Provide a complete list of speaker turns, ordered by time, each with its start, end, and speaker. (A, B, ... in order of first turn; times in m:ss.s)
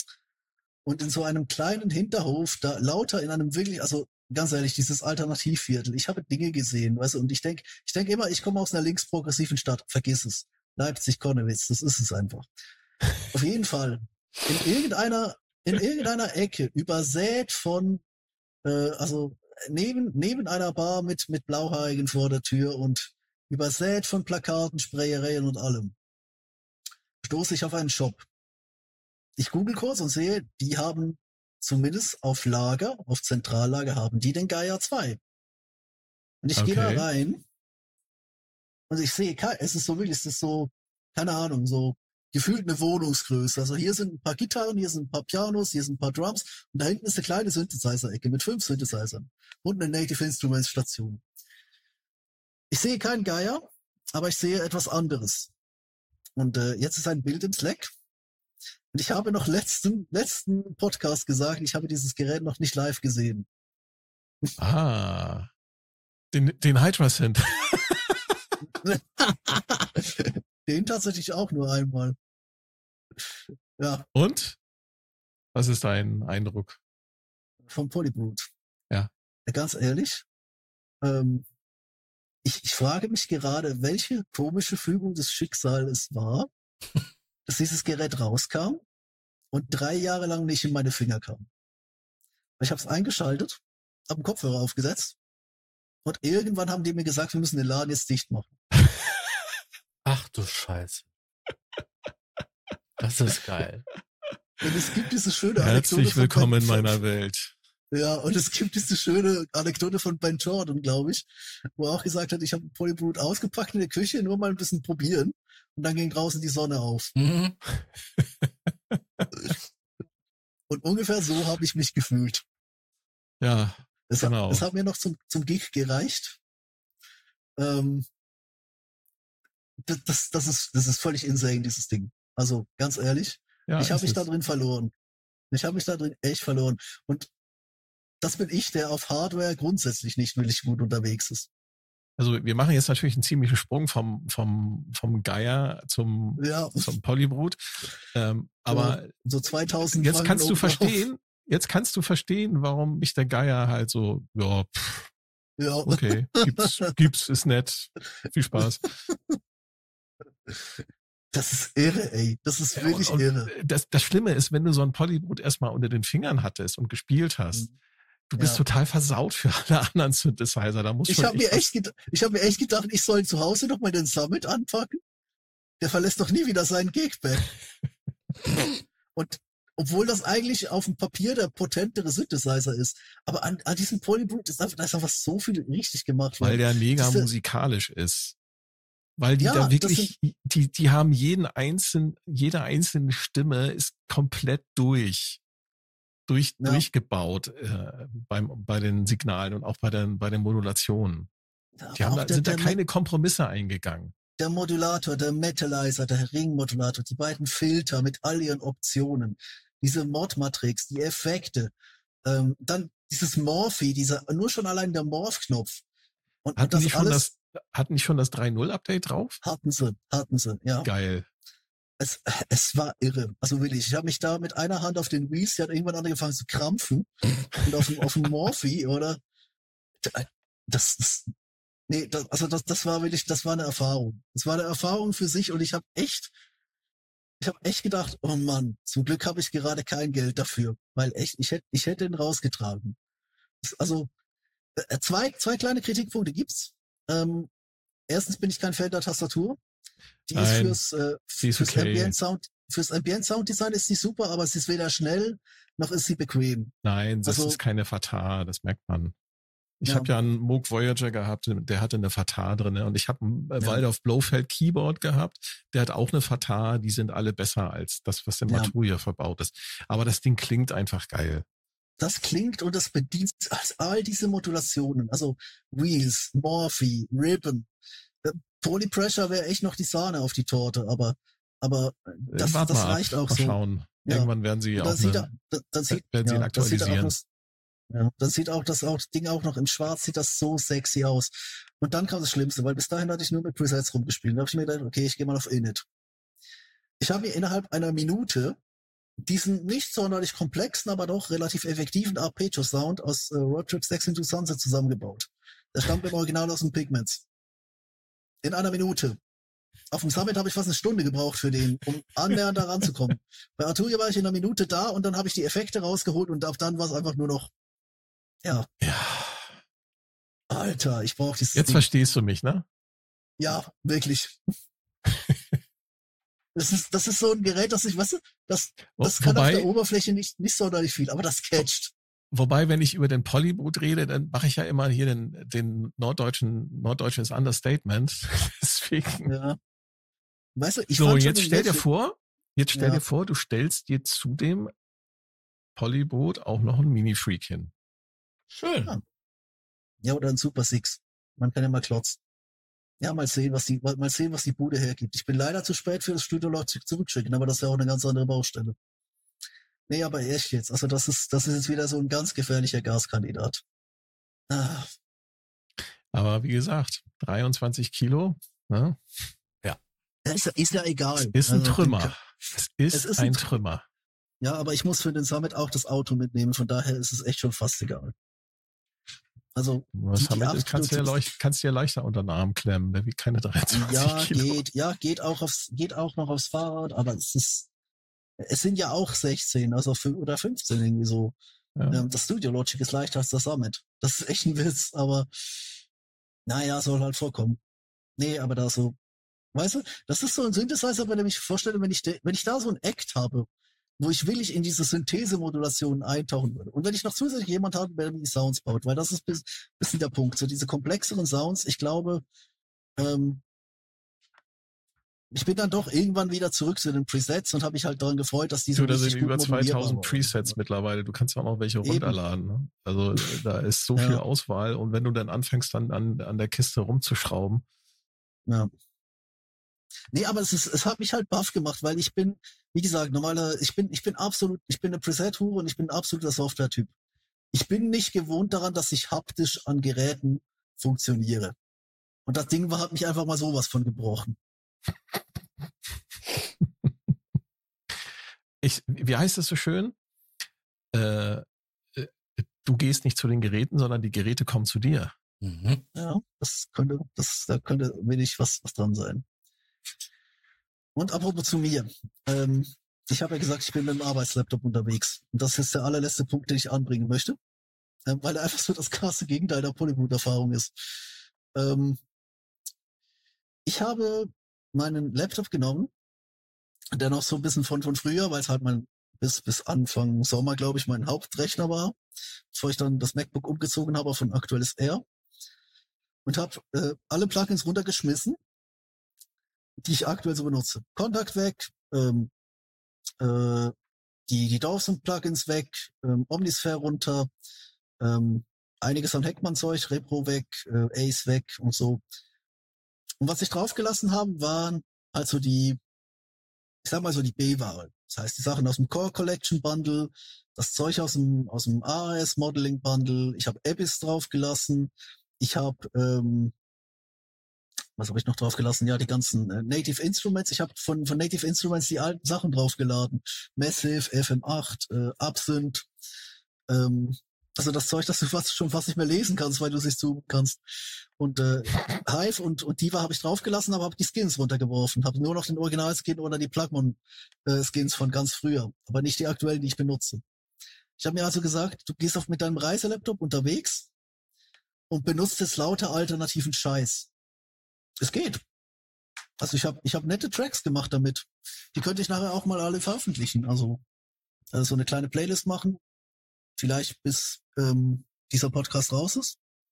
0:00.8-0:12.5 A
0:13.3-0:18.0 A
0:18.6-0:25.9 A
0:27.2-0:28.3 A
0:29.4-0:35.2 A
0:36.4-0:37.4 A
0:36.6-0:37.1 B
0:38.9-0:51.2 A
0:52.7-0:53.6 A
0:54.1-0:55.5 A
0:56.4-0:57.9 A
0:58.9-1:03.5 A
1:04.6-1:05.5 B
1:06.3-1:08.4 B
1:08.8-1:12.2 A
1:13.8-1:14.1 A
1:14.2-1:14.6 B
1:15.6-1:16.8 B
1:17.7-1:18.5 A
1:19.5-1:20.2 A
1:21.0-1:21.4 A
1:22.4-1:26.5 A
1:27.5-1:28.8 A
1:29.5-1:31.5 A
1:32.6-1:35.2 A
1:36.0-1:38.6 A
1:40.0-1:41.1 C
1:43.0-1:43.8 C
1:44.6-1:47.0 A
1:45.6-1:47.5 B
1:47.9-1:57.1 A
1:57.2-1:57.6 C
1:58.2-1:59.3 B
2:00.7-2:02.4 A
2:03.4-2:04.6 B
2:04.1-2:06.4 A
2:07.6-2:08.1 A
2:09.8-2:14.9 A
2:13.7-2:14.2 B
2:15.5-2:17.3 A
2:18.2-2:21.5 A
2:22.2-2:29.1 B
2:26.4-2:26.9 A
2:28.7-2:31.0 A
2:29.9-2:35.1 B
2:35.6-2:36.9 A
2:35.8-2:38.9 B
2:39.1-2:39.4 A
2:40.5-2:43.5 A
2:42.7-2:47.7 B
2:48.3-2:51.7 B
2:51.1-2:55.0 A
2:55.8-2:57.5 A
2:59.2-3:07.3 A
3:06.4-3:08.4 B
3:09.2-3:15.4 B
3:09.4-3:10.1 A
3:16.3-3:21.3 B
3:16.6-3:16.9 A
3:21.8-3:22.8 A
3:22.0-3:24.1 B
3:24.4-3:31.7 A
3:32.2-3:35.8 A
3:36.4-3:37.3 A
3:36.6-3:39.4 B
3:39.4-3:40.9 A
3:40.8-3:41.3 B
3:42.0-3:49.2 A
3:50.0-3:51.3 A
3:51.9-3:56.3 A
3:57.4-4:03.0 A
4:03.6-4:04.1 A
4:04.8-4:07.5 A
4:08.1-4:09.6 A
4:10.3-4:16.7 A
4:10.3-4:10.8 B
4:11.4-4:12.2 B
4:16.8-4:19.2 B
4:17.3-4:17.6 A
4:19.8-4:31.4 B
4:28.5-4:28.7 A
4:32.0-4:37.7 A
4:38.2-4:47.2 A
4:42.3-4:45.3 B
4:45.9-4:47.2 B
4:47.9-4:55.8 A
4:57.0-4:58.6 A
4:59.2-5:07.2 A
5:08.4-5:09.2 A
5:09.9-5:17.5 A
5:18.8-5:19.6 B
5:20.5-5:21.8 A
5:21.6-5:22.7 B
5:23.4-5:24.4 A
5:25.1-5:25.4 B
5:26.6-5:31.9 A
5:29.0-5:29.7 B
5:32.3-5:39.3 B
5:39.3-5:39.6 A
5:40.6-5:41.8 A
5:41.0-5:44.7 B
5:42.8-5:43.0 A
5:45.8-5:47.7 B
5:48.5-5:49.0 C
5:50.0-5:52.2 A
5:53.0-5:58.8 A
5:59.9-6:03.6 A
6:04.5-6:04.9 A
6:06.1-6:09.0 B
6:10.3-6:12.2 A
6:11.2-6:13.8 B
6:12.9-6:13.4 A
6:14.4-6:18.1 A
6:19.6-6:21.2 A
6:20.0-6:24.6 B
6:23.7-6:27.7 A
6:28.4-6:31.4 A
6:31.8-6:32.1 B
6:31.9-6:35.7 A
6:36.5-6:37.6 A
6:38.2-6:39.0 A
6:39.5-6:43.5 A
6:44.0-6:52.2 A
6:53.0-6:53.4 A
6:55.3-7:00.5 A
6:58.8-7:07.6 B
7:01.8-7:02.2 A
7:04.0-7:04.2 A
7:10.1-7:16.9 A
7:17.5-7:21.6 A
7:22.3-7:24.4 A
7:28.6-7:30.0 B
7:30.9-7:35.1 B
7:35.4-7:35.8 C
7:36.0-7:39.2 A
7:41.0-7:47.4 A
7:48.1-7:50.9 A
7:51.5-7:52.0 A
7:53.7-7:55.9 A
7:57.0-8:02.0 A
8:02.5-8:05.0 A
8:06.3-8:08.4 A
8:09.8-8:12.3 A
8:13.2-8:13.8 A
8:14.3-8:17.3 A
8:18.0-8:22.0 A
8:23.2-8:25.8 A
8:26.8-8:36.5 A
8:38.0-8:45.9 A
8:46.7-8:50.6 A
8:51.2-9:00.2 A
9:01.0-9:03.9 A
9:04.9-9:07.1 A
9:08.0-9:08.4 A
9:09.4-9:13.8 A
9:14.5-9:15.8 A
9:16.6-9:19.4 A